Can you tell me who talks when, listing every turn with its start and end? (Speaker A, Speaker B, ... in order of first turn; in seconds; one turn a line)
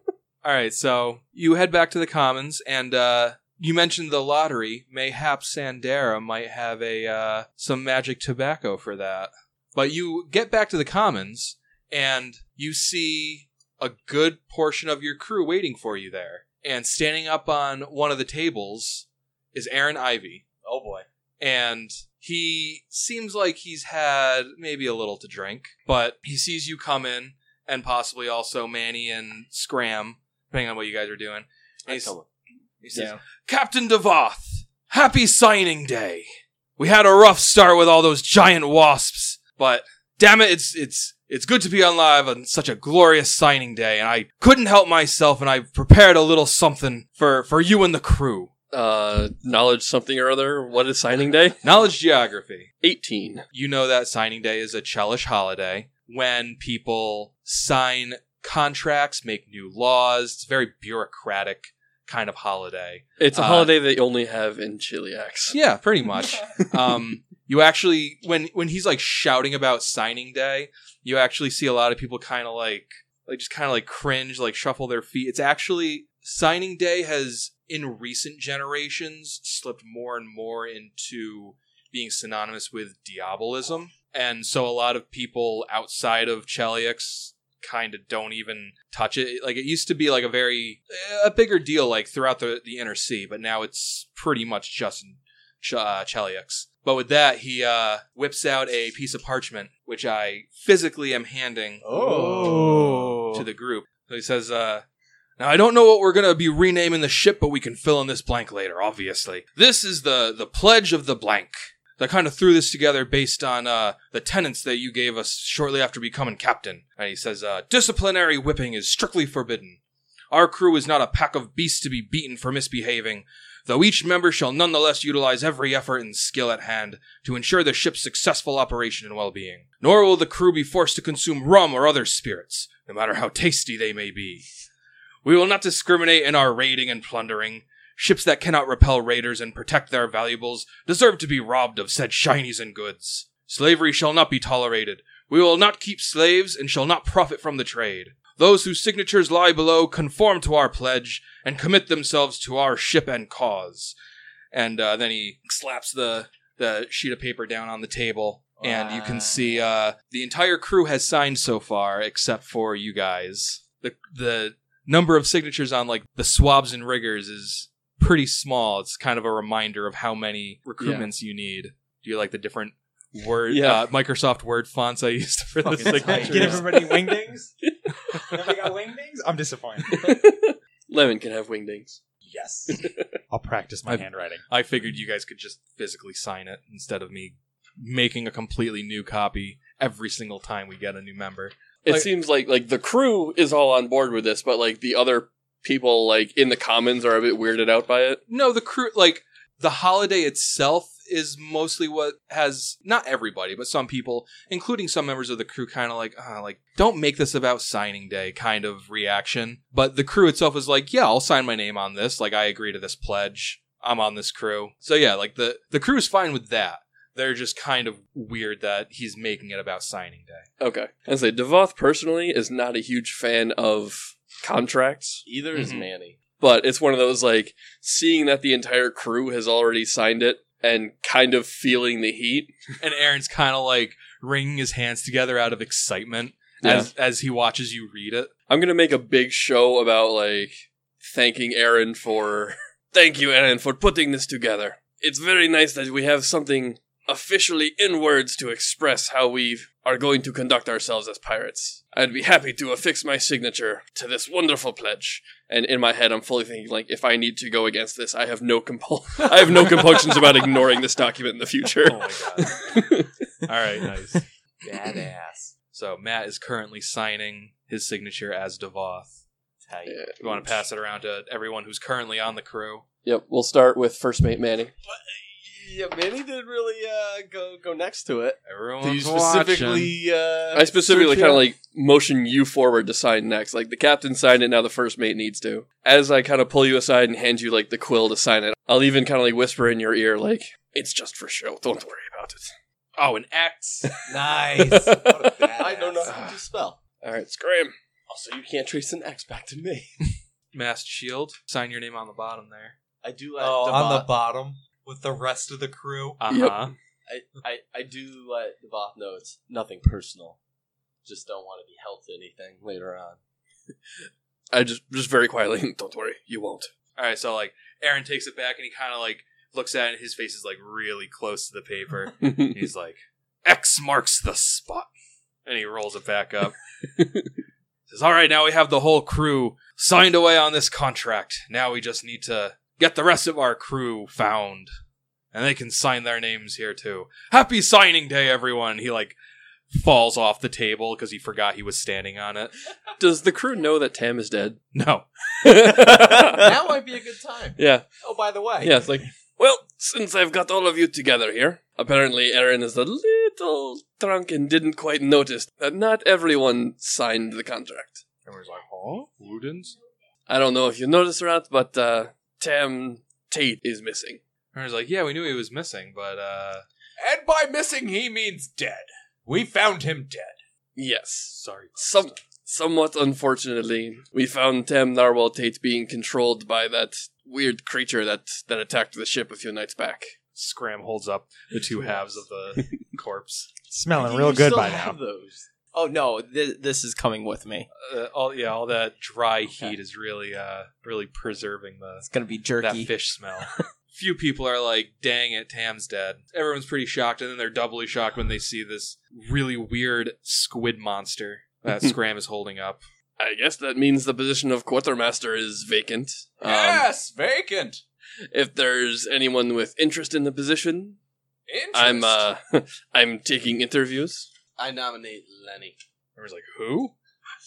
Speaker A: 0.4-20.4
Speaker B: 20.6-21.1
Speaker A: 21.4-32.1
Speaker C: 31.9-32.3
Speaker A: 32.8-36.3
Speaker A: 36.8-48.5
Speaker D: 48.7-51.6
Speaker A: 51.6-52.7
Speaker D: 52.8-53.5
Speaker A: 53.5-63.7
Speaker D: 63.2-65.6
Speaker A: 65.5-101.9
Speaker C: 101.8-103.1
Speaker B: 101.8-103.2
Speaker A: 102.5-104.8
Speaker A: 105.4-119.8
Speaker A: 120.3-134.5
Speaker A: 135.2-153.9
Speaker A: 154.5-176.7
Speaker B: 158.6-159.6
Speaker D: 170.8-171.1
Speaker D: 173.5-173.9
Speaker B: 175.6-176.6
Speaker E: 175.9-177.5
Speaker D: 176.2-177.1
Speaker D: 177.7-178.3
Speaker E: 178.2-180.1
Speaker D: 179.9-182.0
Speaker E: 182.2-184.4
Speaker D: 182.7-183.1
Speaker A: 183.9-192.1
Speaker D: 191.8-198.2
Speaker A: 198.3-220.5
Speaker D: 220.6-225.2
Speaker C: 225.2-226.2
Speaker A: 225.5-225.9
Speaker D: 226.4-232.5
Speaker A: 232.8-238.3
Speaker D: 236.6-236.9
Speaker D: 238.5-263.1
Speaker A: 261.9-262.6
Speaker A: 263.4-264.2
Speaker B: 264.6-265.6
Speaker A: 265.7-269.2
Speaker B: 269.7-270.6
Speaker D: 269.9-270.2
Speaker A: 270.2-272.9
Speaker D: 273.0-274.7
Speaker C: 274.9-281.1
Speaker A: 278.5-279.9
Speaker B: 279.0-279.4
Speaker D: 280.5-292.5
Speaker B: 281.1-281.4
Speaker A: 293.0-294.1
Speaker B: 294.1-296.1
Speaker D: 294.6-296.3
Speaker C: 295.6-296.8
Speaker D: 297.0-297.7
Speaker C: 298.1-299.9
Speaker A: 300.5-302.8
Speaker C: 303.0-304.1
Speaker B: 303.4-306.2
Speaker A: 306.2-306.7
Speaker D: 306.3-306.7
Speaker C: 307.1-310.4
Speaker C: 311.0-313.2
Speaker D: 314.5-316.7
Speaker A: 316.9-324.9
Speaker D: 322.2-322.6
Speaker A: 325.4-326.6
Speaker D: 327.0-327.3
Speaker A: 327.9-334.7
Speaker A: 335.3-339.1
Speaker A: 339.7-342.5
Speaker D: 343.0-344.6
Speaker A: 344.7-345.9
Speaker D: 345.4-346.6
Speaker B: 346.1-348.9
Speaker D: 347.6-347.9
Speaker D: 348.6-358.0
Speaker A: 358.2-359.8
Speaker D: 360.3-364.2
Speaker A: 364.5-366.6
Speaker B: 367.0-370.4
Speaker D: 370.8-380.1
Speaker A: 371.3-372.1
Speaker A: 380.4-383.5
Speaker E: 383.7-385.0
Speaker C: 384.0-385.5
Speaker F: 385.7-387.7
Speaker A: 387.8-392.1
Speaker F: 392.0-393.6
Speaker A: 392.6-402.8
Speaker D: 403.2-406.9
Speaker B: 406.4-407.8
Speaker D: 408.3-411.0
Speaker B: 411.5-412.3
Speaker D: 411.7-414.3
Speaker C: 414.6-415.8
Speaker A: 416.2-416.9